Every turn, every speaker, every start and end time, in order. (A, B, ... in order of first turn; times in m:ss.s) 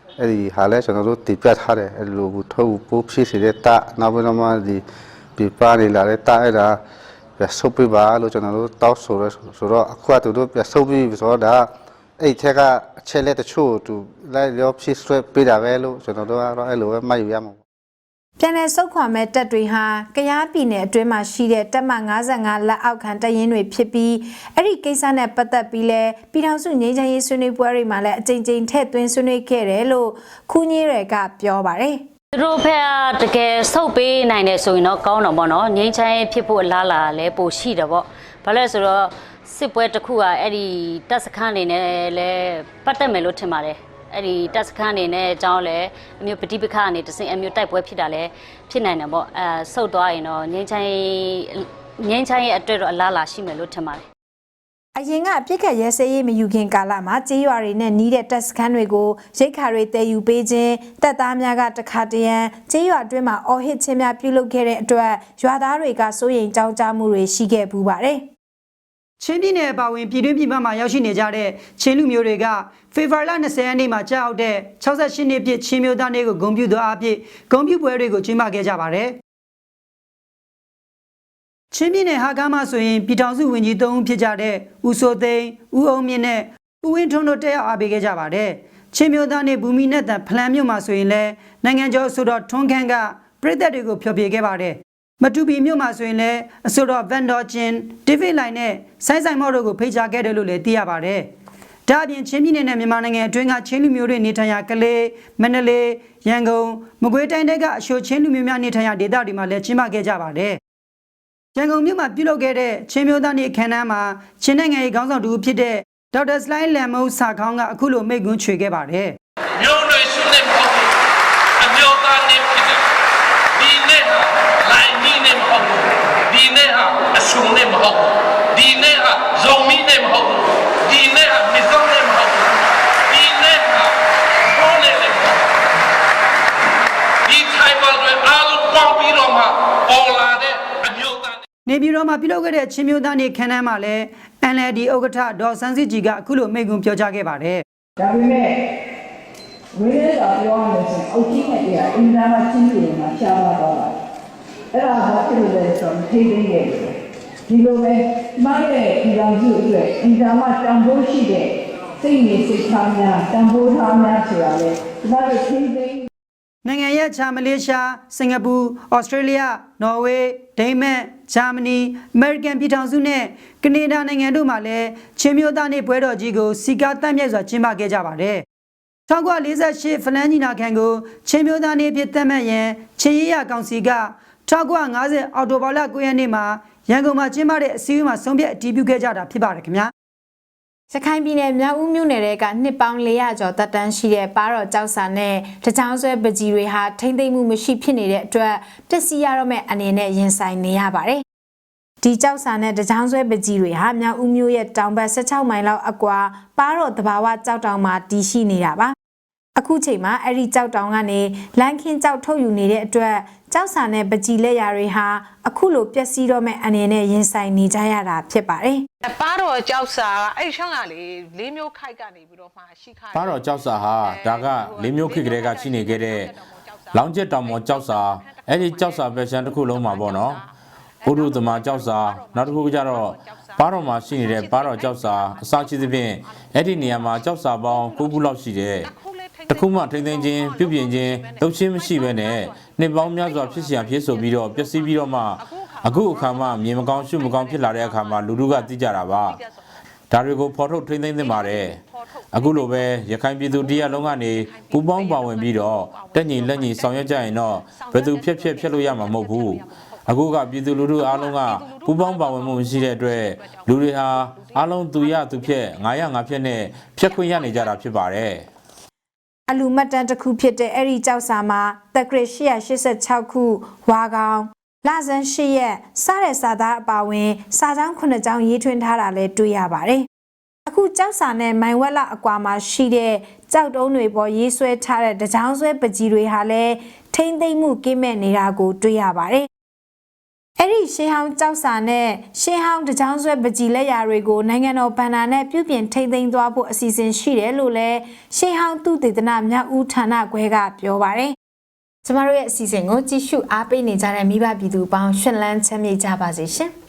0:00.2-0:04.8 A
0:05.4-0:06.8 A
0:07.4-0:17.6 A
0:18.4-0:32.0 B
0:32.3-0:54.0 C
0:55.0-1:08.3 B
1:09.2-1:19.2 D
1:21.7-1:41.3 D
1:41.9-1:50.6 D
1:51.6-1:59.2 D
1:59.6-2:00.9 E
2:01.6-2:02.8 E
2:03.6-2:12.5 E
2:13.1-2:14.0 E
2:14.5-2:15.4 E
2:17.3-2:21.4 E
2:21.6-2:27.6 D
2:28.0-2:28.6 F
2:29.7-2:33.9 F
2:34.7-2:37.0 F
2:37.5-2:46.1 F
2:46.6-2:58.4 D
2:59.1-3:09.9 D
3:10.9-3:21.2 B
3:22.0-3:29.0 B
3:29.6-3:38.8 B
3:39.1-3:43.2 G
3:43.1-3:46.3 H
3:46.9-3:50.4 H
3:51.0-3:58.9 H
3:59.5-4:09.4 H
4:10.1-4:11.8 H
4:12.3-4:28.5 H
4:29.5-4:40.1 B
4:40.7-4:49.5 B
4:50.6-5:01.4 B
5:02.0-5:06.7 B